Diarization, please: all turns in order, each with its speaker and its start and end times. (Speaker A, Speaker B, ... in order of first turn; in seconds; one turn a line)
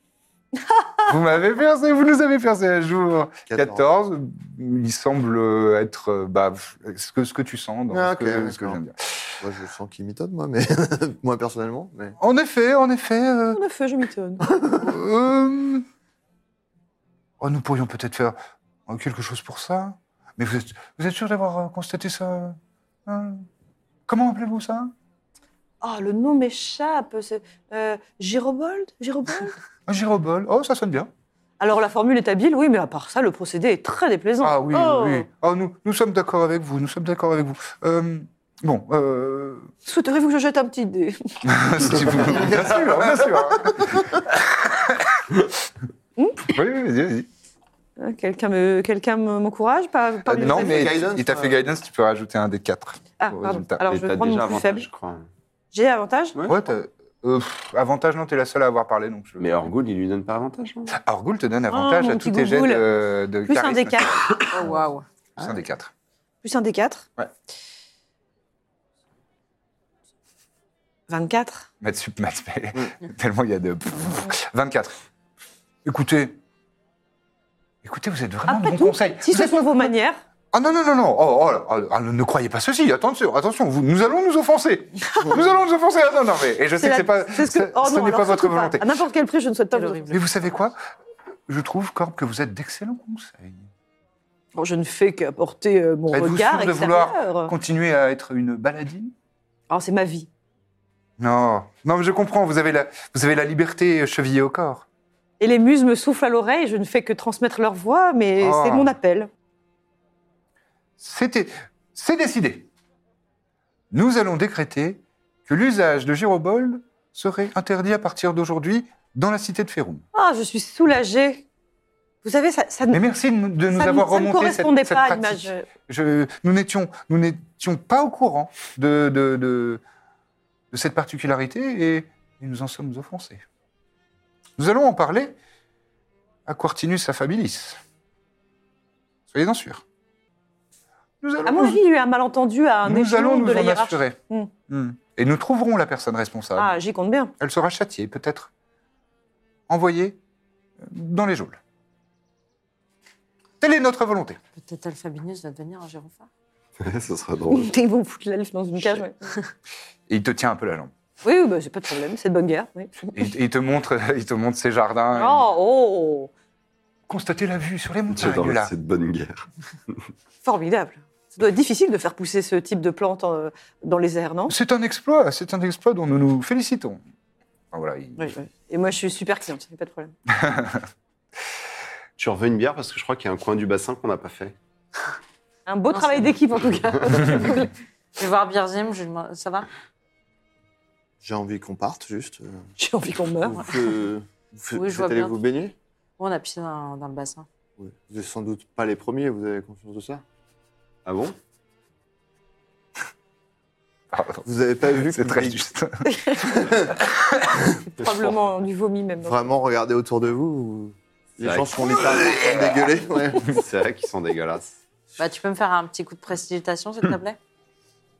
Speaker A: 0.6-1.1
Speaker B: 1.1-9.4
Speaker C: 3.5-3.8
Speaker C: 7.9-8.8
Speaker C: 9.4-12.2
Speaker B: 12.2-13.6
Speaker A: 13.5-14.4
Speaker C: 14.5-14.8
Speaker B: 14.8-15.9
Speaker B: 17.4-18.4
Speaker B: 18.9-23.5
Speaker B: 24.1-24.9
Speaker A: 25.8-29.6
Speaker B: 29.9-31.1
Speaker A: 31.6-35.3
Speaker B: 34.4-39.7
Speaker A: 39.9-41.4
Speaker B: 41.4-45.3
Speaker C: 42.1-44.1
Speaker B: 46.5-47.3
Speaker A: 48.0-50.9
Speaker B: 50.2-53.9
Speaker C: 50.3-51.6
Speaker A: 53.2-54.9
Speaker D: 53.9-55.3
Speaker A: 55.7-56.4
Speaker B: 56.5-59.7
Speaker D: 59.4-61.0
Speaker B: 60.9-64.2
Speaker A: 61.7-62.9
Speaker A: 63.5-64.4
Speaker E: 64.5-65.0
Speaker B: 65.4-65.9
Speaker A: 66.4-67.1
Speaker A: 71.1-71.7
Speaker B: 71.8-75.0
Speaker B: 75.8-76.4
Speaker B: 77.8-79.9
Speaker A: 78.5-80.2
Speaker B: 80.5-88.9
Speaker A: 86.8-90.1
Speaker E: 89.7-90.2
Speaker B: 90.1-90.8
Speaker B: 91.5-93.7
Speaker A: 94.5-97.5
Speaker B: 96.1-99.1
Speaker A: 99.7-100.3
Speaker B: 101.2-104.9
Speaker A: 105.4-109.3
Speaker B: 108.4-108.9
Speaker B: 111.0-112.7
Speaker B: 113.9-120.0
Speaker A: 120.1-121.5
Speaker A: 122.2-123.0
Speaker B: 122.9-129.8
Speaker A: 123.7-125.7
Speaker B: 130.7-133.4
Speaker B: 134.6-135.4
Speaker B: 136.5-137.8
Speaker B: 139.3-139.8
Speaker B: 141.2-141.8
Speaker A: 141.4-144.5
Speaker B: 142.8-144.2
Speaker B: 144.7-146.7
Speaker A: 146.6-147.3
Speaker B: 147.4-148.5
Speaker B: 149.7-150.2
Speaker B: 150.8-151.6
Speaker B: 153.6-154.4
Speaker E: 154.6-156.3
Speaker D: 156.8-157.7
Speaker A: 157.5-159.3
Speaker B: 160.1-160.9
Speaker A: 161.2-163.2
Speaker B: 163.1-165.5
Speaker A: 165.1-166.3
Speaker B: 167.1-168.7
Speaker D: 168.1-170.1
Speaker A: 170.4-174.6
Speaker B: 174.5-177.0
Speaker B: 177.7-178.3
Speaker A: 178.2-180.1
Speaker B: 180.3-180.9
Speaker D: 182.2-184.6
Speaker A: 185.7-187.7
Speaker E: 185.9-186.3
Speaker E: 187.2-187.7
Speaker E: 188.2-189.7
Speaker C: 191.2-192.6
Speaker A: 192.8-193.7
Speaker C: 193.4-195.8
Speaker E: 194.7-195.4
Speaker E: 196.2-197.5
Speaker C: 197.8-200.2
Speaker D: 201.1-201.4
Speaker B: 204.1-207.6
Speaker C: 204.4-205.7
Speaker A: 206.1-206.4
Speaker C: 206.4-207.0
Speaker A: 207.8-209.4
Speaker C: 209.2-213.6
Speaker D: 211.4-212.7
Speaker B: 212.1-212.5
Speaker D: 213.5-214.8
Speaker E: 215.2-217.4